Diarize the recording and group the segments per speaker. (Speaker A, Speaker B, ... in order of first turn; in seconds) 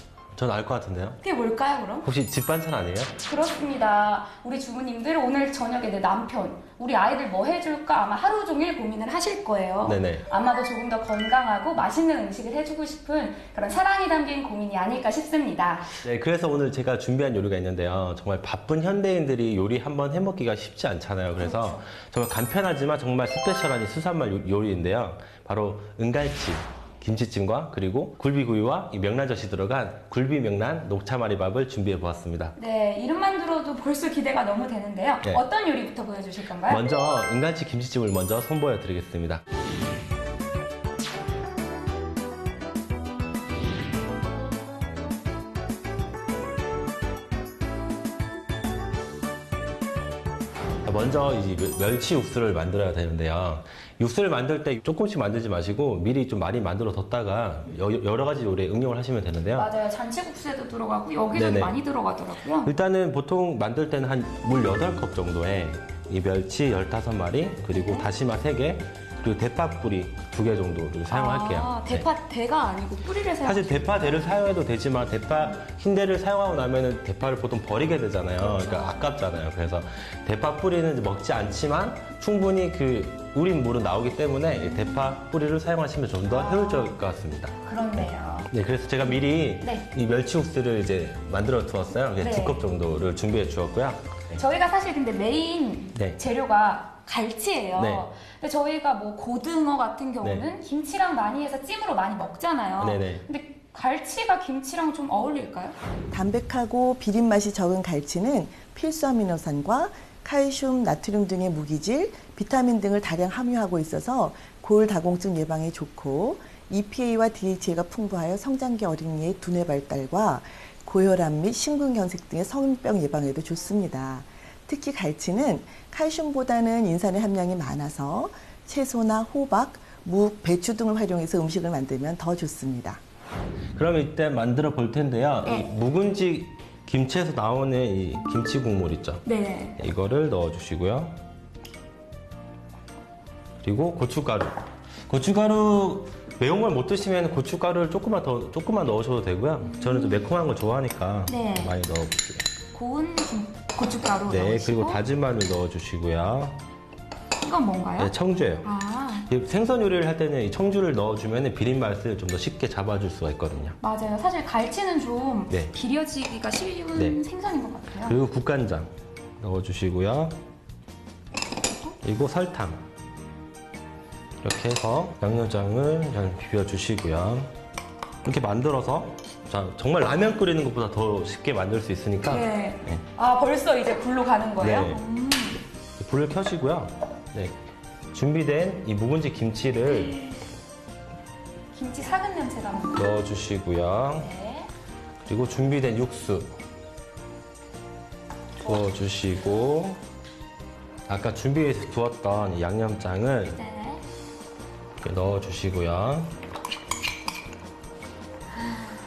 Speaker A: 0.3-1.2, 2.0-3.1, 9.8-10.2, 16.0-32.5, 36.7-39.4, 50.8-59.7, 61.3-61.8, 62.6-72.1, 73.4-94.4, 97.8-98.1, 102.8-103.2, 133.8-139.2, 139.8-141.2, 143.6-144.6, 145.1-152.4, 154.3-156.6, 158.0-158.7, 159.3-163.8, 168.1-170.3, 172.0-172.8, 174.4-177.5, 178.2-183.0, 184.6-185.0, 186.0-187.6, 188.1-190.1, 192.9-194.3, 195.2-196.5, 198.6-200.0, 201.1-203.6, 205.0-206.3
Speaker B: 1.2-2.1, 3.2-15.9, 21.4-21.8, 32.5-36.9, 59.5-62.7, 67.7-68.1, 71.1-74.1, 78.4-79.1, 84.5-85.2, 86.3-87.0, 87.6-88.5, 89.6-89.8, 92.2-92.6, 94.3-105.7, 139.2-139.8, 149.6-150.3, 151.2-151.7, 152.7-155.0, 157.4-159.3, 163.8-168.2, 182.2-185.6, 189.8-190.4, 191.7-193.2, 194.2-194.7, 203.5-204.0
Speaker C: 106.1-133.0